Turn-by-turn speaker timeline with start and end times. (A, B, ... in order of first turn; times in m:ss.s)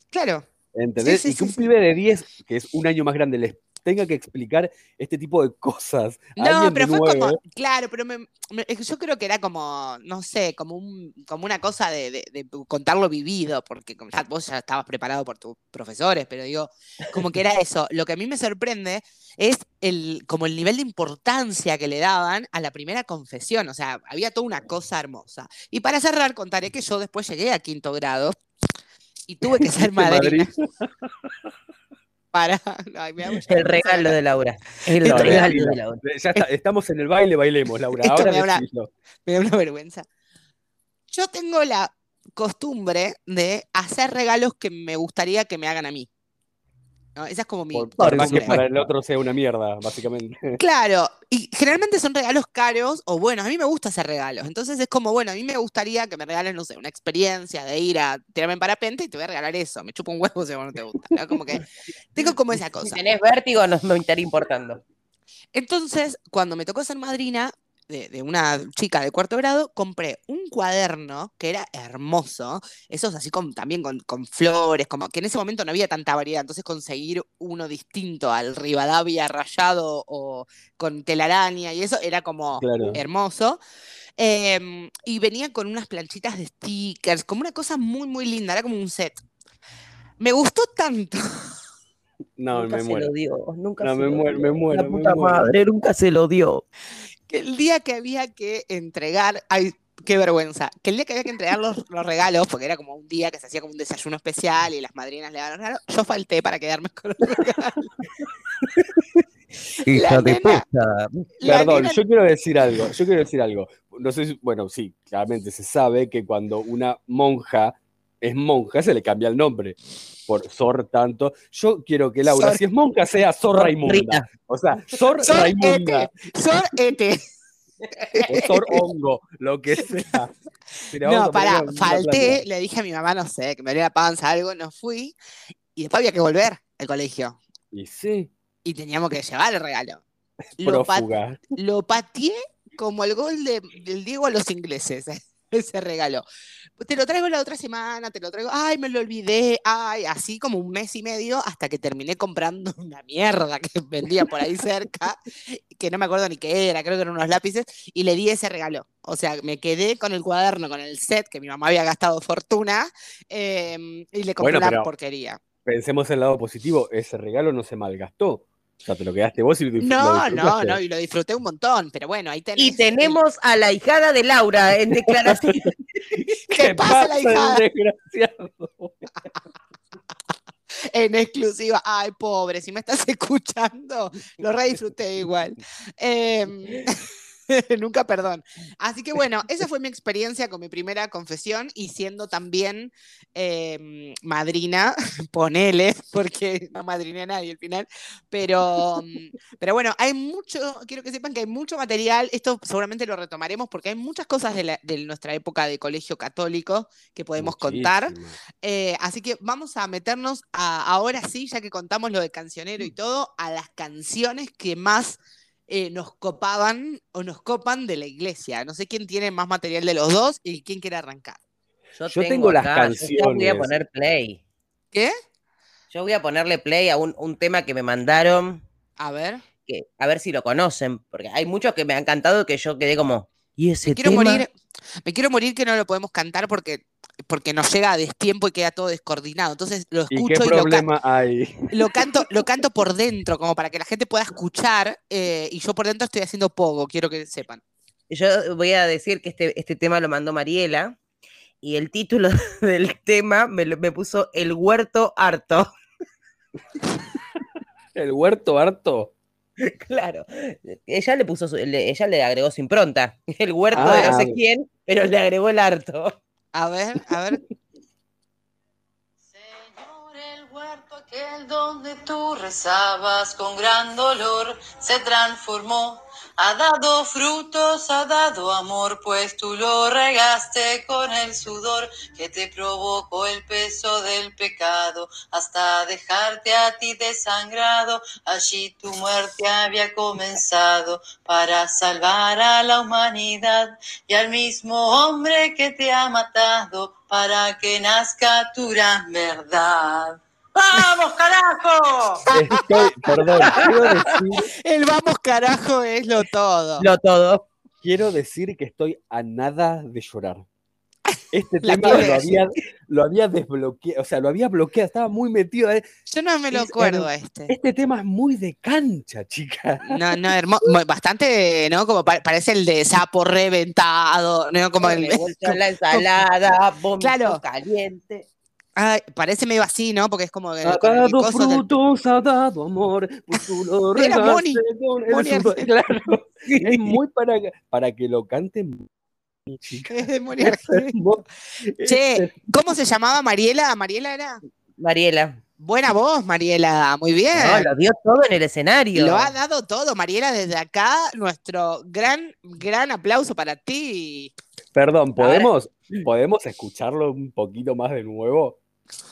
0:00.1-0:00.5 A
0:00.7-0:07.4 B
0:01.0-0:01.6 A
0:06.4-0:28.3 A
0:29.3-0:30.5 A
0:29.6-0:31.3 B
0:32.3-0:34.2 A
0:33.5-0:36.0 C
0:35.0-0:35.6 A
0:35.0-0:38.9 B
0:38.0-0:38.6 A
0:39.3-0:40.1 A
0:41.1-0:46.1 A
0:47.2-0:48.6 A
0:47.7-0:50.6 B
0:48.0-0:48.6 C
0:50.6-1:03.0 A
1:02.7-1:04.8 C
1:05.5-1:23.6 A
1:22.6-1:23.0 B
1:24.2-1:29.2 A
1:30.2-1:31.2 A
1:32.4-1:33.1 B
1:32.5-1:36.6 C
1:33.8-1:35.5 B
1:37.3-1:47.9 A
1:49.8-1:51.3 C
1:49.9-1:50.6 A
1:51.4-1:52.0 A
1:51.4-2:06.1 B
2:02.3-2:02.6 A
2:03.6-2:04.3 C
2:05.2-2:07.2 A
2:08.1-2:08.8 A
2:08.3-2:10.3 B
2:10.9-2:12.4 B
2:11.0-2:15.2 A
2:15.8-2:17.4 A
2:17.7-2:18.3 B
2:18.6-2:20.0 A
2:20.6-2:21.4 B
2:20.6-2:26.2 A
2:26.8-2:45.4 A
2:44.4-2:44.9 B
2:45.6-2:50.8 B
2:49.8-2:53.2 A
2:52.6-2:55.7 C
2:55.1-2:55.6 B
2:56.1-2:59.0 B
2:56.5-2:57.6 A
3:00.9-3:41.4 A
3:27.4-3:28.4 B
3:42.0-3:44.4 C
3:42.1-3:43.7 B
3:45.9-3:48.6 C
3:49.0-3:49.4 A
3:49.7-3:54.5 C
3:53.9-3:54.5 A
3:55.0-4:00.9 A
4:00.1-4:01.9 B
4:01.7-4:07.6 A
4:08.1-4:11.0 C
4:11.6-4:15.7 C
4:18.0-4:19.1 B
4:19.6-4:26.2 C
4:23.7-4:24.4 B
4:23.7-4:24.1 A
4:26.5-4:27.4 A
4:29.4-5:02.2 D
5:02.3-5:03.3 A
5:02.3-5:04.5 B
5:04.6-5:06.9 A
5:06.8-5:07.5 C
5:07.8-5:10.4 B
5:11.3-5:15.8 B
5:11.6-5:12.4 A
5:16.1-5:17.5 A
5:16.5-5:20.3 B
5:19.9-5:26.0 A
5:24.8-5:28.3 C
5:27.0-5:27.4 A
5:28.8-5:31.7 A
5:30.6-5:38.9 B
5:34.0-5:35.7 A
5:36.5-5:37.0 C
5:39.5-5:42.3 B
5:39.9-5:40.9 A
5:41.8-5:44.4 A
5:44.8-5:45.4 C
5:45.6-5:47.7 A
5:47.3-5:49.3 C
5:49.0-5:54.3 A
5:54.7-5:58.6 B
5:55.2-5:56.1 C